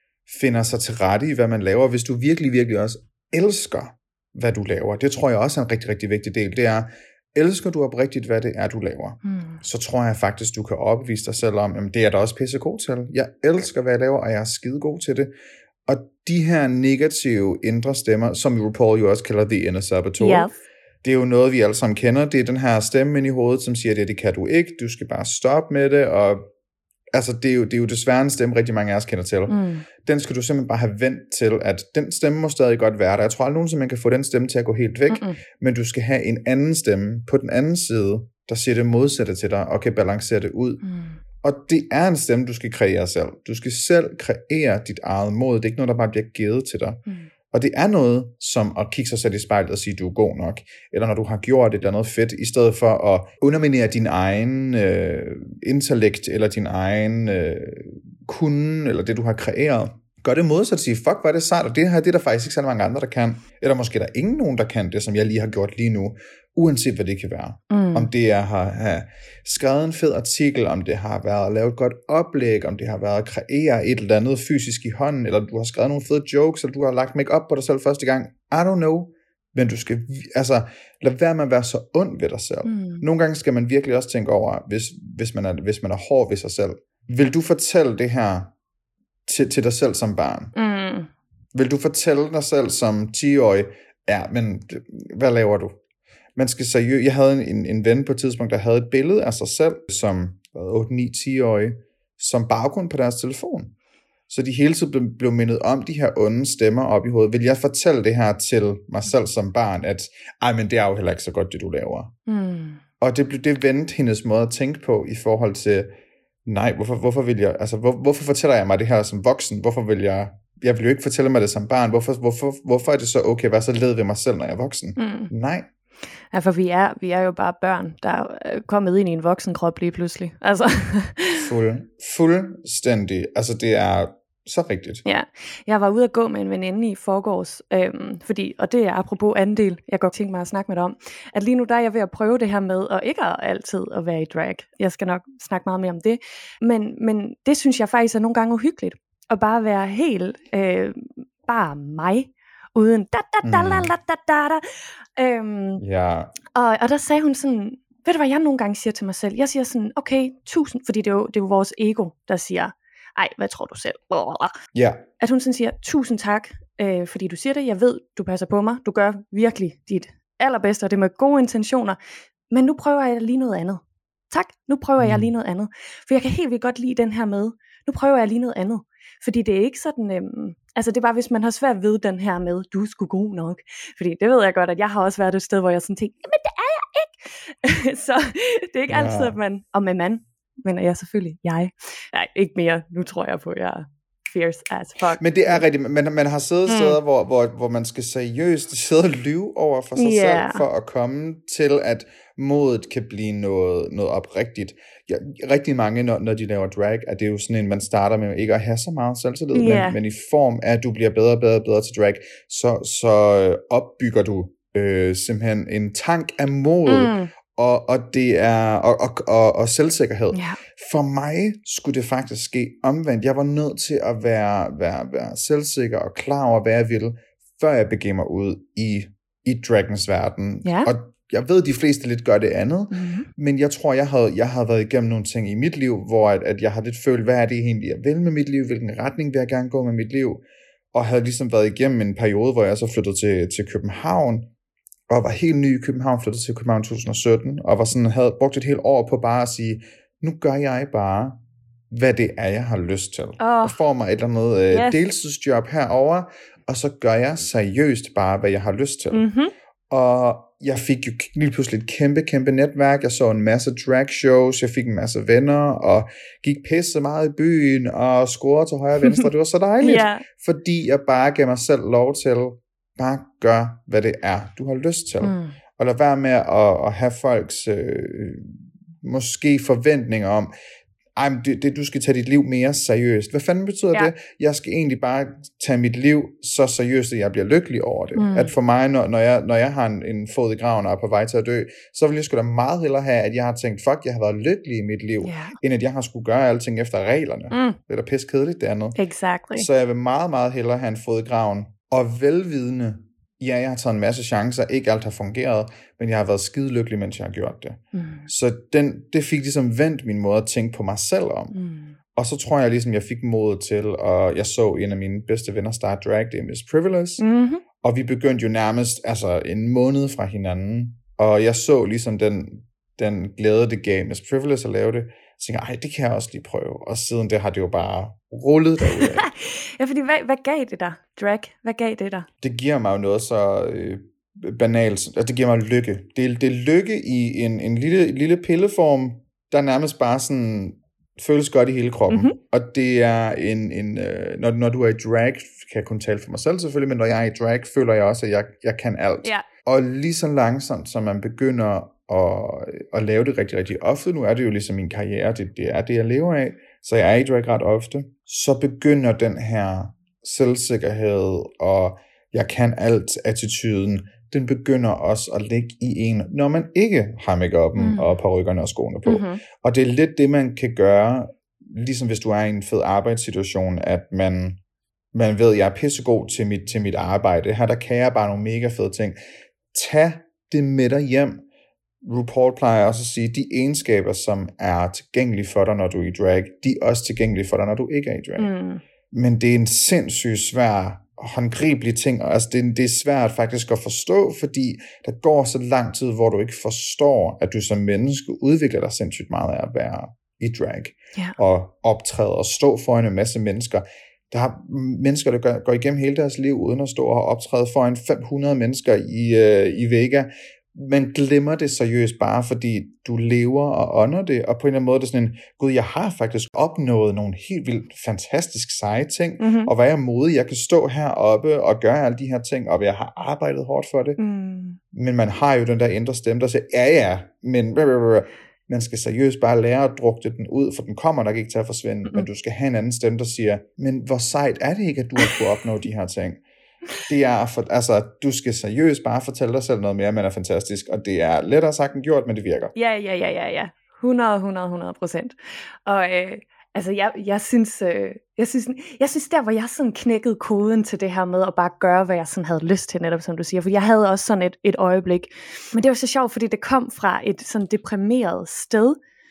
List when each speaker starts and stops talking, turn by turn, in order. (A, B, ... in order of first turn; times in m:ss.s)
0:00.3-0:15.3 A
0:09.2-0:09.6 B
0:15.9-0:20.5 A
0:20.2-0:20.6 B
0:21.0-0:26.4 A
0:27.1-0:40.8 A
0:29.5-0:29.8 B
0:35.1-0:35.4 B
0:40.8-0:41.2 B
0:41.4-0:47.0 A
0:47.5-1:28.5 A
1:07.7-1:08.1 B
1:22.6-1:23.0 B
1:29.3-1:30.5 A
1:30.5-1:31.1 B
1:31.5-1:35.8 A
1:36.4-1:43.7 A
1:44.3-1:52.1 A
1:52.3-1:52.8 B
1:53.0-1:55.9 A
1:56.4-2:05.7 A
2:05.0-2:05.3 B
2:06.3-2:11.5 B
2:11.4-2:15.0 A
2:15.0-2:34.6 B
2:33.4-2:33.9 A
2:35.2-2:35.8 B
2:35.8-2:36.3 A
2:36.5-2:44.5 B
2:44.7-2:45.0 A
2:45.2-2:52.0 B
2:52.5-3:15.6 B
2:55.0-2:55.3 A
3:08.9-3:09.4 A
3:15.2-4:00.4 A
3:16.7-3:17.0 B
3:20.0-3:20.6 B
3:29.5-3:30.0 B
3:36.8-3:37.3 B
3:40.3-3:40.6 B
3:50.6-3:50.9 B
3:52.9-3:53.3 B
4:00.9-4:04.5 A
4:05.1-4:11.4 A
4:11.9-4:19.3 A
4:13.4-4:13.8 B
4:14.7-4:15.0 B
4:19.1-4:19.5 B
4:19.9-4:40.5 A
4:29.0-4:29.3 B
4:29.8-4:30.2 B
4:35.2-4:35.6 B
4:41.2-4:59.0 A
4:48.1-4:48.5 B
4:55.2-4:55.6 B
4:57.5-4:57.8 B
4:59.0-4:59.7 B
4:59.6-5:11.5 A
5:07.9-5:08.3 B
5:11.5-5:12.0 B
5:12.1-5:17.2 A
5:17.2-5:17.6 B
5:17.8-5:29.3 A
5:29.0-5:32.3 B
5:32.4-6:14.6 A
5:42.1-5:42.4 B
6:07.8-6:08.1 B
6:09.0-6:09.4 B
6:15.1-6:19.2 A
6:19.7-6:21.4 A
6:22.0-6:28.5 A
6:28.4-6:28.8 B
6:29.1-7:04.2 A
6:59.4-6:59.7 B
7:04.2-7:04.8 B
7:04.9-7:16.4 A
7:17.1-7:22.7 A
7:22.7-7:39.0 B